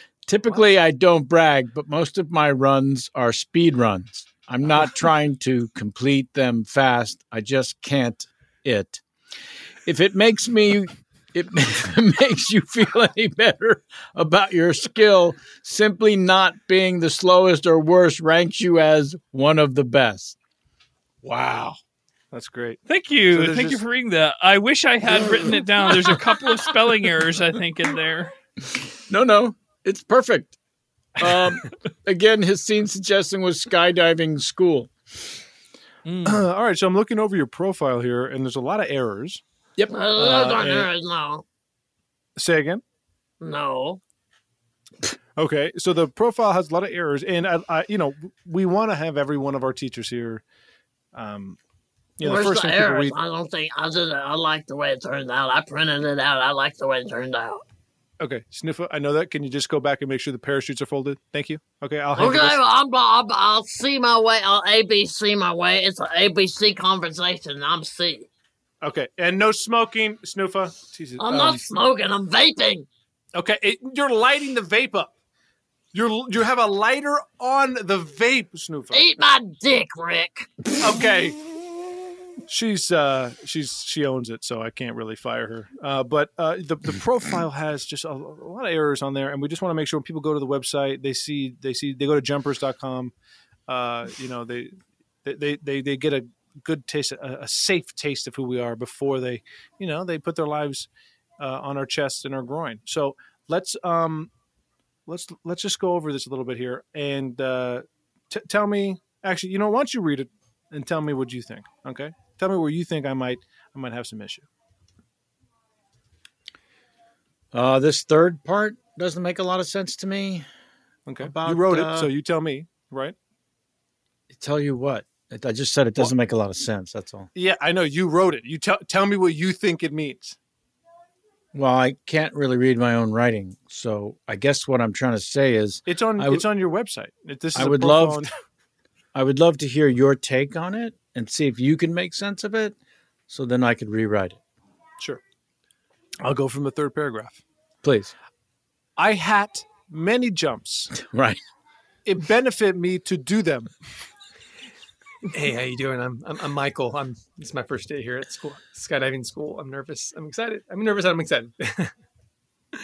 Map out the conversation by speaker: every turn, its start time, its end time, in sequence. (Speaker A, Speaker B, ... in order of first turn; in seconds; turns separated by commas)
Speaker A: 0.3-9.0, Speaker A: 9.9-20.4, Speaker A: 21.2-21.8, Speaker B: 22.3-23.8, Speaker C: 22.9-28.3, Speaker A: 29.1-30.6, Speaker A: 31.2-34.9, Speaker C: 36.0-36.5, Speaker B: 36.2-39.4, Speaker A: 39.8-40.9, Speaker D: 39.9-41.4, Speaker B: 40.2-40.6, Speaker B: 42.4-42.8, Speaker D: 43.4-44.0, Speaker B: 45.4-50.4, Speaker B: 51.1-51.6, Speaker B: 52.2-53.1, Speaker D: 52.2-57.6, Speaker B: 58.2-62.7, Speaker D: 62.1-68.3, Speaker B: 68.8-71.7, Speaker D: 71.2-72.9, Speaker B: 73.3-75.1, Speaker B: 75.9-79.0, Speaker D: 78.9-80.5, Speaker B: 80.8-81.4, Speaker B: 82.5-93.1, Speaker B: 93.7-100.9, Speaker B: 101.4-104.3, Speaker B: 105.1-114.5, Speaker A: 117.5-120.5, Speaker B: 121.1-123.2, Speaker A: 121.2-122.1, Speaker A: 124.3-127.3, Speaker B: 127.3-130.4, Speaker A: 131.5-136.5, Speaker B: 135.9-138.3, Speaker A: 137.6-138.3, Speaker A: 139.1-142.8, Speaker A: 143.3-144.4, Speaker B: 146.2-147.4, Speaker A: 147.8-148.1, Speaker B: 149.0-150.9, Speaker A: 150.9-151.4, Speaker B: 152.1-153.7, Speaker E: 155.3-161.9